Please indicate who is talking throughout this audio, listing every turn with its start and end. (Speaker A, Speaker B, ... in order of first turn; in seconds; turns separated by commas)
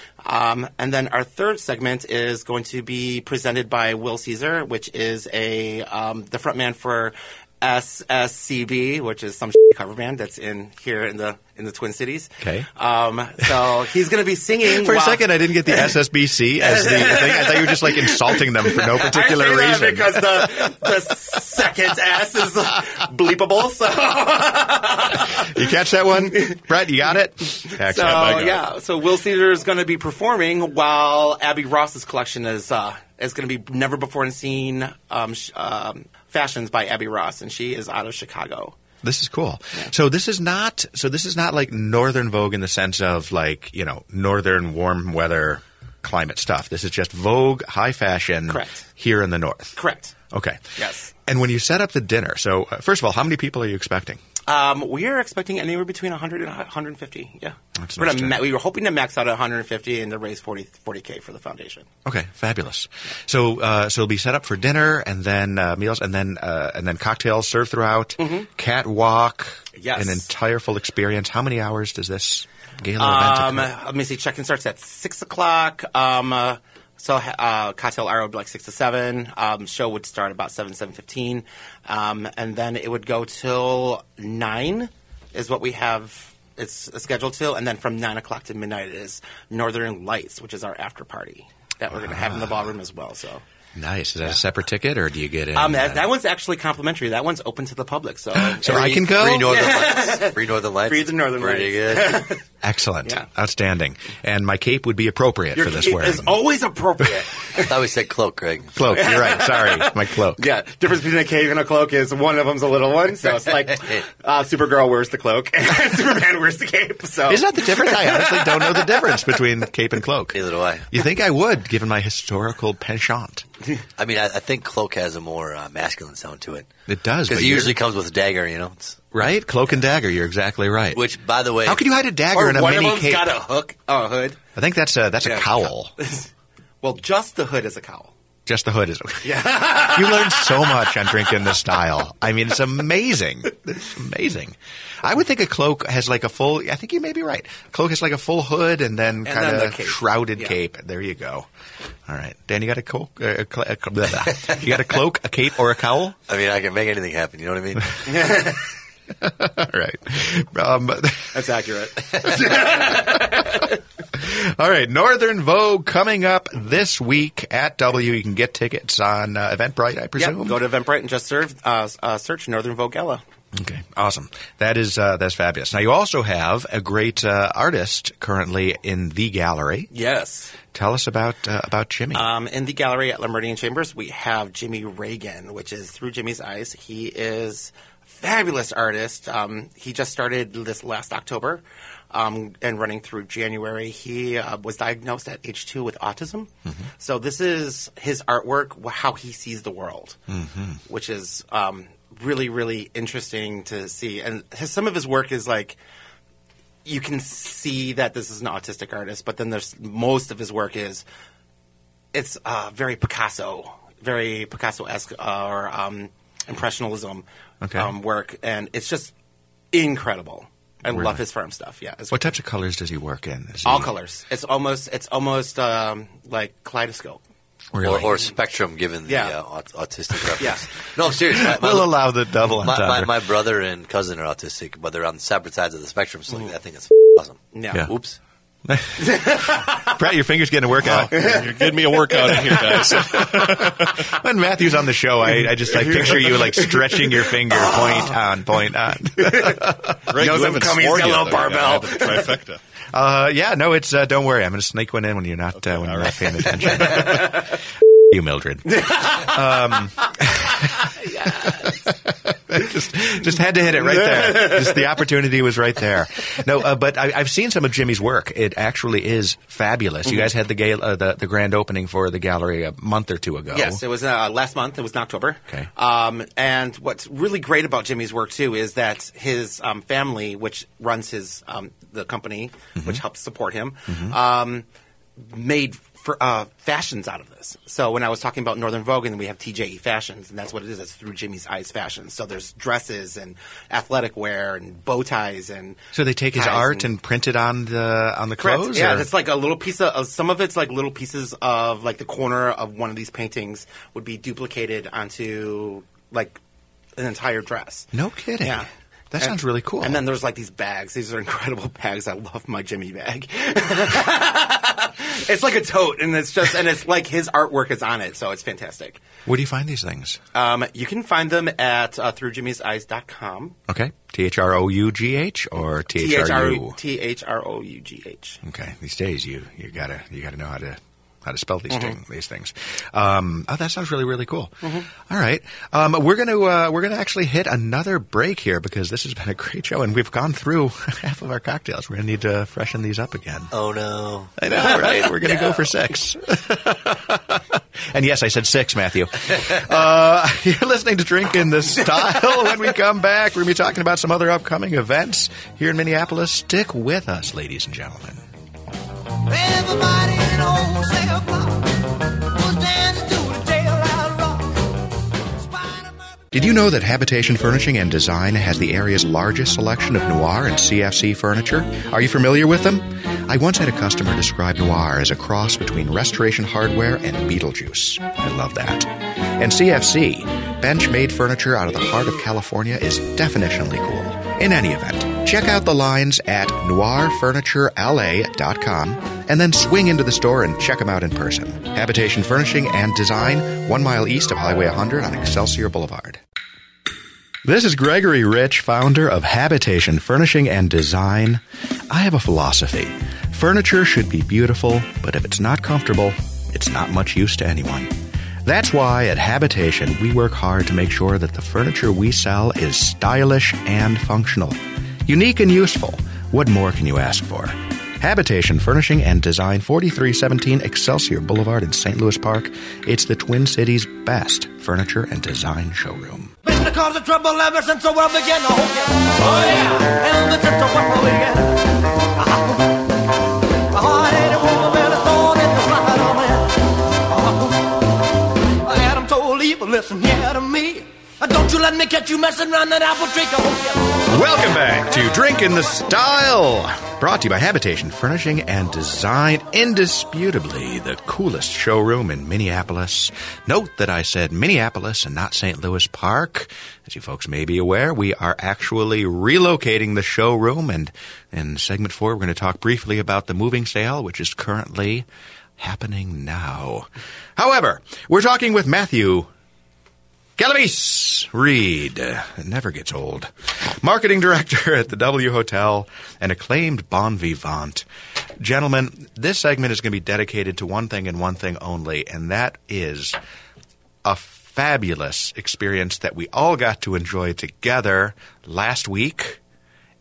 Speaker A: 0.2-15.9, Speaker B: 12.4-12.7, Speaker B: 14.6-20.7, Speaker A: 16.6-25.6, Speaker B: 25.3-28.6, Speaker A: 26.2-26.6, Speaker A: 27.6-38.8, Speaker B: 39.0-49.8, Speaker A: 48.5-48.8, Speaker A: 49.8-50.1, Speaker B: 50.3-54.2, Speaker A: 50.8-51.1, Speaker A: 54.5-61.9, Speaker B: 57.8-58.4, Speaker B: 62.0-73.7, Speaker A: 68.2-68.5, Speaker A: 69.8-70.2, Speaker A: 73.0-93.4, Speaker B: 91.9-92.7, Speaker B: 93.7-96.1, Speaker A: 95.5-102.4, Speaker B: 98.3-99.6, Speaker C: 98.7-102.3, Speaker B: 102.6-106.3, Speaker A: 105.5-107.8, Speaker C: 107.6-108.7, Speaker B: 108.7-110.4, Speaker A: 108.8-119.4, Speaker C: 113.7-114.0, Speaker B: 117.3-120.4, Speaker C: 120.3-120.9, Speaker B: 120.9-123.4, Speaker C: 124.0-126.7, Speaker B: 126.9-127.8, Speaker C: 127.3-129.0, Speaker B: 129.1-131.0, Speaker C: 130.9-131.8, Speaker B: 131.6-133.3, Speaker A: 132.3-134.4, Speaker B: 134.6-135.9, Speaker A: 135.2-136.3, Speaker A: 136.8-138.1, Speaker B: 138.4-151.5, Speaker A: 139.2-140.9, Speaker A: 149.2-150.6, Speaker B: 152.1-156.2, Speaker C: 156.3-158.1, Speaker A: 158.1-158.6, Speaker B: 159.2-161.5, Speaker A: 161.3-163.8, Speaker B: 164.1-170.6, Speaker A: 170.2-173.2, Speaker B: 173.5-179.9, Speaker A: 179.9-180.6, Speaker B: 180.7-182.3, Speaker A: 182.1-200.2, Speaker B: 200.3-200.8, Speaker A: 200.9-205.8, Speaker A: 206.8-211.0, Speaker A: 212.1-219.1, Speaker B: 217.6-217.9, Speaker A: 219.7-222.3, Speaker B: 220.9-221.2, Speaker B: 222.1-223.9, Speaker A: 223.6-227.2, Speaker B: 227.7-228.2, Speaker C: 227.8-238.2, Speaker A: 229.1-229.3, Speaker A: 230.4-230.7, Speaker B: 231.3-233.2, Speaker A: 237.5-237.9, Speaker B: 238.6-241.4, Speaker A: 239.0-239.8, Speaker D: 240.8-244.0, Speaker A: 241.1-241.7, Speaker B: 242.3-250.0, Speaker D: 245.8-246.3, Speaker A: 247.5-248.1, Speaker A: 249.2-252.4, Speaker D: 250.1-252.6, Speaker B: 252.9-273.8, Speaker D: 255.7-257.1, Speaker A: 256.8-257.5, Speaker A: 258.7-259.8, Speaker A: 260.7-261.8, Speaker A: 263.9-264.8, Speaker A: 273.5-284.6, Speaker B: 283.9-284.2, Speaker A: 285.2-295.8, Speaker B: 295.9-299.1, Speaker A: 296.3-296.9, Speaker A: 298.4-306.4, Speaker A: 306.9-307.9, Speaker B: 307.9-310.0, Speaker A: 308.4-308.7, Speaker A: 309.2-319.0, Speaker B: 319.2-320.2, Speaker A: 320.3-323.6, Speaker B: 323.7-326.8, Speaker A: 325.9-328.4, Speaker B: 328.4-343.5, Speaker A: 331.7-332.0, Speaker C: 343.5-345.6, Speaker B: 344.4-358.2, Speaker E: 359.2-364.8, Speaker E: 365.4-366.2, Speaker B: 366.3-396.2, Speaker B: 397.4-407.9, Speaker B: 408.4-426.3, Speaker E: 426.4-432.9, Speaker E: 433.7-437.9, Speaker E: 438.6-443.9, Speaker B: 444.1-465.1, Speaker B: 465.6-469.3, Speaker B: 470.4-477.9, Speaker B: 478.4-483.2, Speaker B: 484.0-489.4